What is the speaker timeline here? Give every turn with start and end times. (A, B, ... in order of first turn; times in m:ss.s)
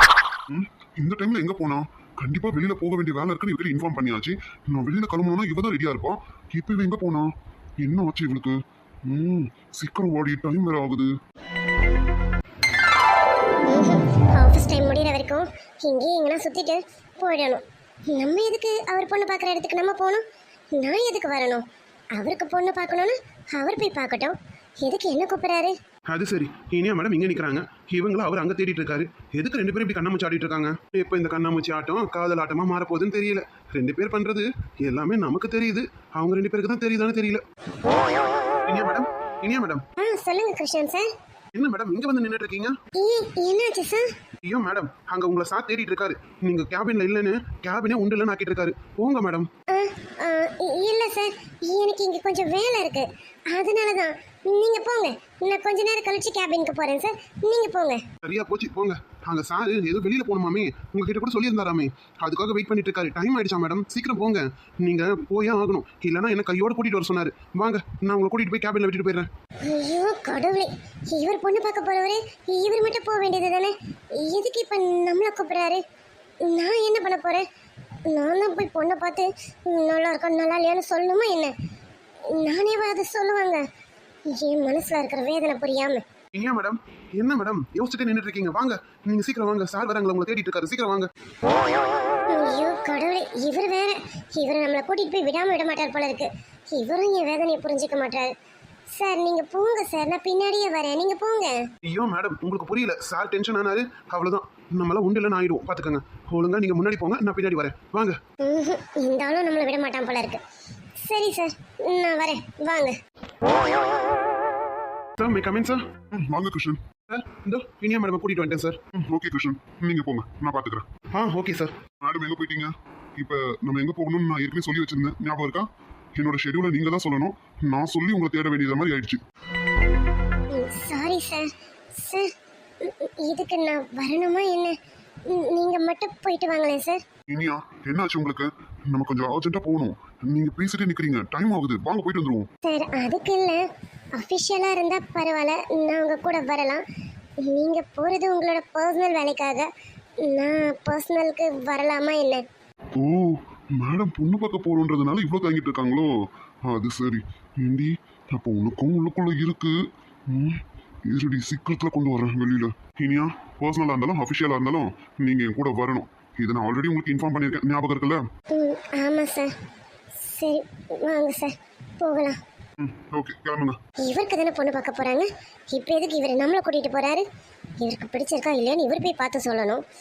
0:00.5-0:11.1 A
0:13.7-0:20.2 B
0:20.8-0:25.8 B
0:26.1-0:37.4 C
0:38.7-0:39.8 C
0:40.0-0:41.1 B
0:41.6-0:42.8 C
0:43.0-0:44.1 B
0:44.4-0:49.5 C
0:49.7-0:58.0 B
0:58.2-1:09.3 C
1:09.6-1:15.8 B
1:16.4-1:17.4 B
1:18.1-1:21.5 B
1:22.3-1:23.6 B
1:24.3-1:26.0 B
1:26.3-1:31.1 C
1:32.3-1:38.3 B
1:39.0-1:41.6 B
1:41.8-1:48.2 C
1:48.4-1:50.4 B
1:51.0-1:53.0 B
1:55.2-1:55.8 C
1:56.1-1:56.8 A
1:57.1-1:58.8 C
1:58.9-2:00.9 A
2:01.1-2:01.7 C
2:02.0-2:09.2 A
2:10.5-2:14.8 B
2:15.3-2:17.0 B
2:17.3-2:22.5 A
2:22.6-2:23.6 B
2:24.2-2:26.8 B
2:27.4-2:29.7 B
2:30.2-2:32.4 B
2:33.0-2:36.1 A
2:36.7-2:48.2 A
2:48.5-2:49.5 B
2:50.2-2:52.4 B
2:52.8-2:53.8 A
2:54.0-2:57.2 B
2:57.8-2:59.8 B